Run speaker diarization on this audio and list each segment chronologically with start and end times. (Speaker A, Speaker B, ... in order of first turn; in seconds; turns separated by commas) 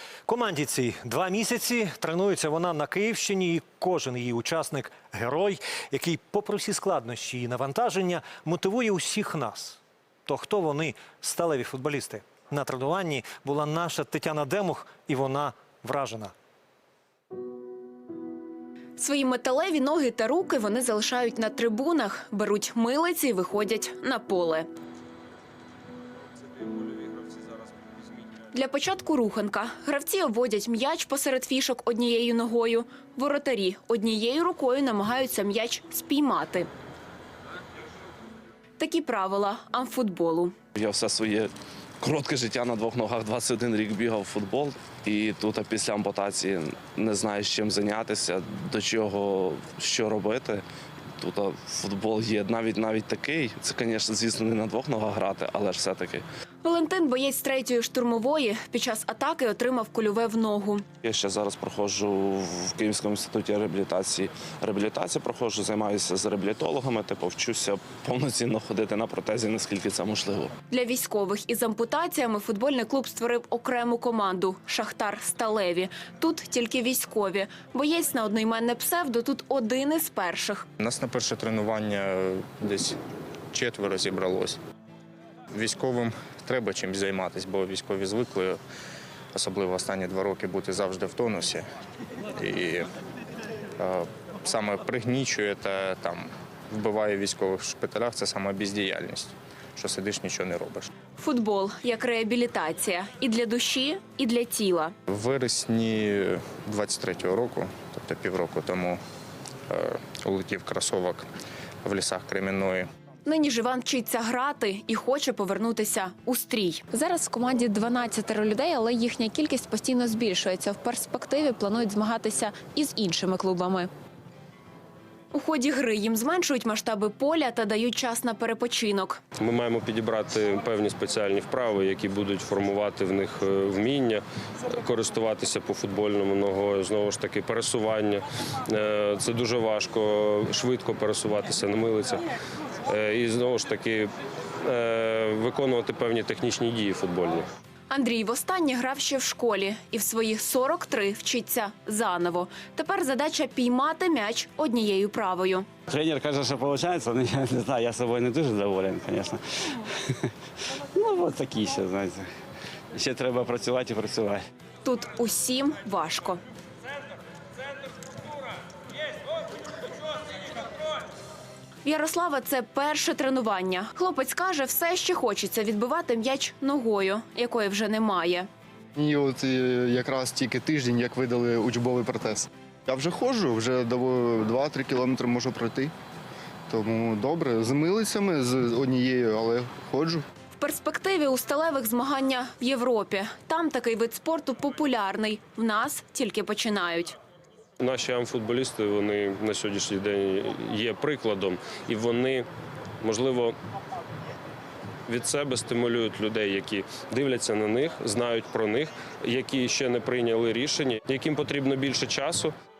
Speaker A: 0.3-16.3, Speaker B: 19.0-24.7, Speaker B: 28.5-36.7, Speaker B: 38.8-40.5, Speaker C: 40.7-50.6, Speaker C: 51.2-56.2, Speaker B: 56.6-60.8, Speaker C: 61.0-70.5, Speaker B: 70.7-80.7, Speaker D: 80.8-83.0, Speaker D: 83.5-84.6, Speaker D: 85.5-88.6, Speaker D: 89.3-91.7, Speaker D: 92.3-92.9, Speaker D: 93.8-100.9, Speaker B: 101.2-104.9, Speaker D: 105.1-109.0, Speaker D: 109.7-111.3, Speaker D: 111.8-112.9, Speaker B: 113.2-123.9, Speaker B: 125.3-129.2, Speaker E: 129.3-142.2, Speaker E: 142.8-144.1, Speaker E: 144.6-147.5, Speaker B: 147.9-155.7, Speaker F: 155.9-160.2, Speaker F: 160.9-162.3, Speaker F: 162.9-164.4, Speaker B: 164.8-166.4, Speaker B: 171.8-178.5, Speaker G: 178.9-185.9, Speaker G: 186.7-190.2, Speaker B: 190.6-197.2, Speaker E: 197.8-202.5, Speaker E: 203.0-203.6, Speaker E: 205.1-212.5